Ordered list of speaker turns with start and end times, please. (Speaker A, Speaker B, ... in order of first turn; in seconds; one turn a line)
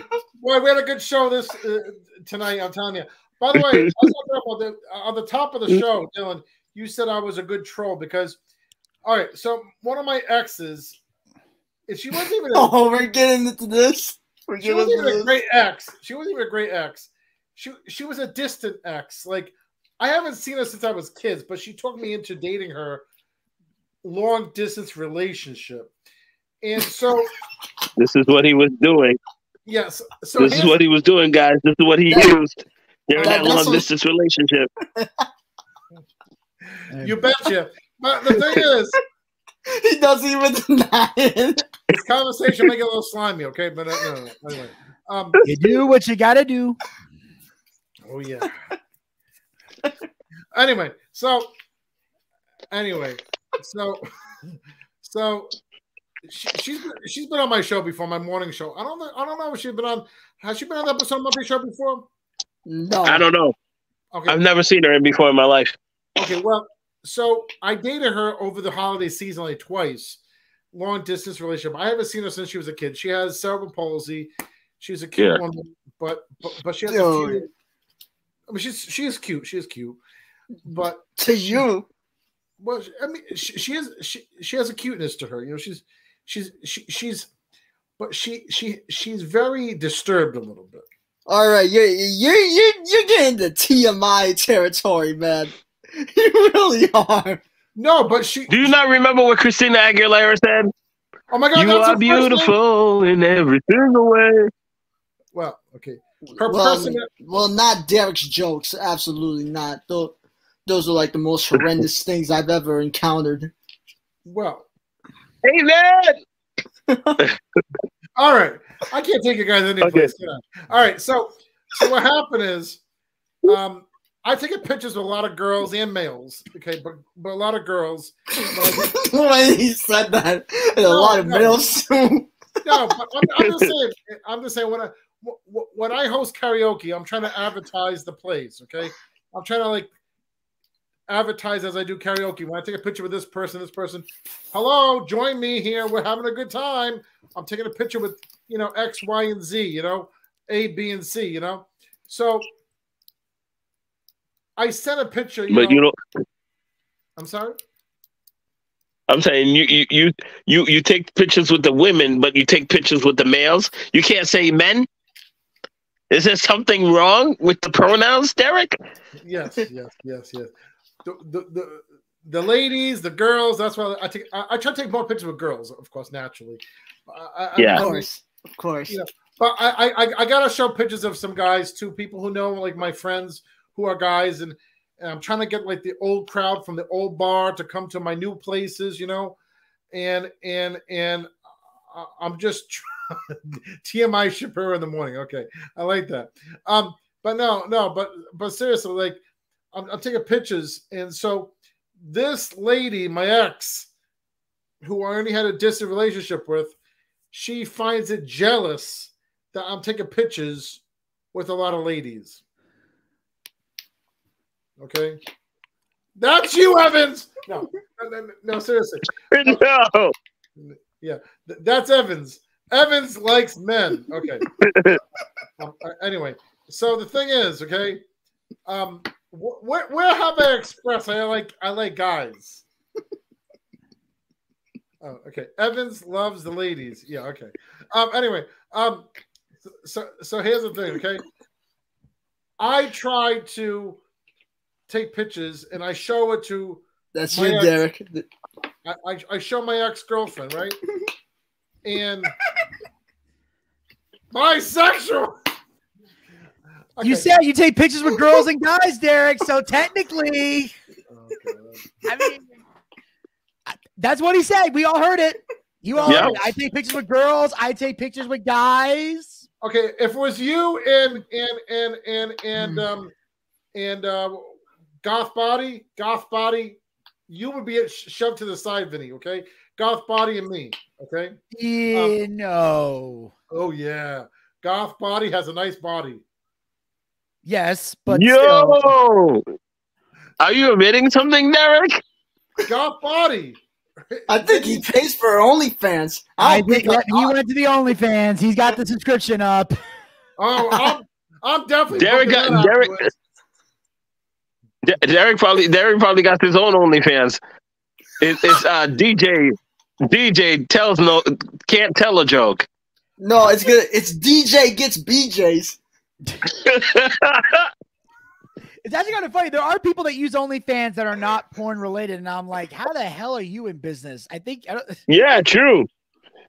Speaker A: 0.4-8.4
Speaker B: 3.6-3.9
Speaker A: 9.0-11.0
Speaker A: 11.9-12.8
Speaker C: 12.5-15.3
Speaker A: 14.6-23.0
Speaker A: 24.0-25.9
Speaker A: 26.6-27.3
Speaker B: 28.0-29.2
Speaker A: 29.6-30.8
Speaker B: 30.4-34.7
Speaker C: 32.1-32.4
Speaker A: 33.1-33.7
Speaker C: 33.2-33.9
Speaker C: 35.0-35.3
Speaker D: 36.9-37.2
Speaker A: 37.0-39.0
Speaker C: 38.3-38.7
Speaker C: 39.7-41.7
Speaker A: 41.9-45.4
Speaker D: 45.4-46.8
Speaker A: 48.0-48.5
Speaker A: 50.5-51.5
Speaker A: 52.7-54.0
Speaker A: 55.0-55.5
Speaker A: 56.2-62.0
Speaker C: 62.6-63.3
Speaker B: 63.0-63.5
Speaker A: 64.1-64.4
Speaker B: 64.3-65.8
Speaker A: 66.2-70.2
Speaker A: 70.7-77.5
Speaker C: 76.9-77.5
Speaker A: 78.5-80.0
Speaker A: 80.7-81.0
Speaker C: 81.2-81.9
Speaker A: 82.6-87.3
Speaker A: 88.0-90.8
Speaker C: 91.3-97.4
Speaker A: 97.8-98.7
Speaker B: 98.5-100.7
Speaker A: 101.3-102.5
Speaker B: 101.5-104.5
Speaker A: 105.3-107.1
Speaker C: 106.4-113.5
Speaker A: 114.2-114.7
Speaker B: 115.4-116.2
Speaker C: 116.9-117.2
Speaker A: 118.2-122.8
Speaker B: 119.8-120.1
Speaker A: 123.5-128.9
Speaker C: 128.7-132.3
Speaker A: 130.8-131.6
Speaker A: 132.6-139.9
Speaker B: 133.4-133.7
Speaker A: 141.1-152.5
Speaker A: 154.6-155.8
Speaker B: 155.5-155.9
Speaker A: 157.2-157.6
Speaker B: 159.1-164.9
Speaker B: 166.1-168.8
Speaker A: 169.2-170.5
Speaker A: 171.0-178.1
Speaker B: 177.6-177.8
Speaker C: 177.7-179.0
Speaker A: 178.9-189.4
Speaker A: 189.9-191.3
Speaker A: 191.9-199.2
Speaker A: 199.7-203.9
Speaker A: 204.8-206.7
Speaker A: 207.3-212.4
Speaker A: 214.8-215.2
Speaker A: 216.2-219.6
Speaker B: 219.3-220.1
Speaker A: 220.6-224.5
Speaker B: 224.6-225.0
Speaker A: 225.6-228.0
Speaker A: 228.7-232.6
Speaker A: 235.0-239.1
Speaker A: 239.7-241.2
Speaker A: 242.6-244.0
Speaker A: 244.9-247.8
Speaker C: 247.1-248.3
Speaker A: 248.8-250.8
Speaker A: 251.8-252.3
Speaker A: 254.3-255.3
Speaker A: 256.9-257.4
Speaker D: 257.0-260.7
Speaker A: 261.1-261.8
Speaker D: 262.1-262.5
Speaker D: 263.7-269.4
Speaker A: 265.9-266.6
Speaker B: 266.1-266.3
Speaker A: 269.6-273.1
Speaker A: 273.7-274.5
Speaker A: 275.0-281.4
Speaker D: 281.5-283.3
Speaker A: 281.9-282.2
Speaker A: 283.5-286.2
Speaker D: 287.4-288.9
Speaker B: 288.1-289.4
Speaker B: 290.4-292.0
Speaker A: 292.6-294.9
Speaker C: 294.3-297.3
Speaker D: 296.4-299.8
Speaker A: 300.4-303.1
Speaker B: 301.9-302.9
Speaker B: 304.9-307.4
Speaker B: 308.2-309.5
Speaker B: 310.1-312.7
Speaker C: 313.2-315.8
Speaker B: 316.5-317.7
Speaker D: 318.8-325.0
Speaker B: 325.1-325.9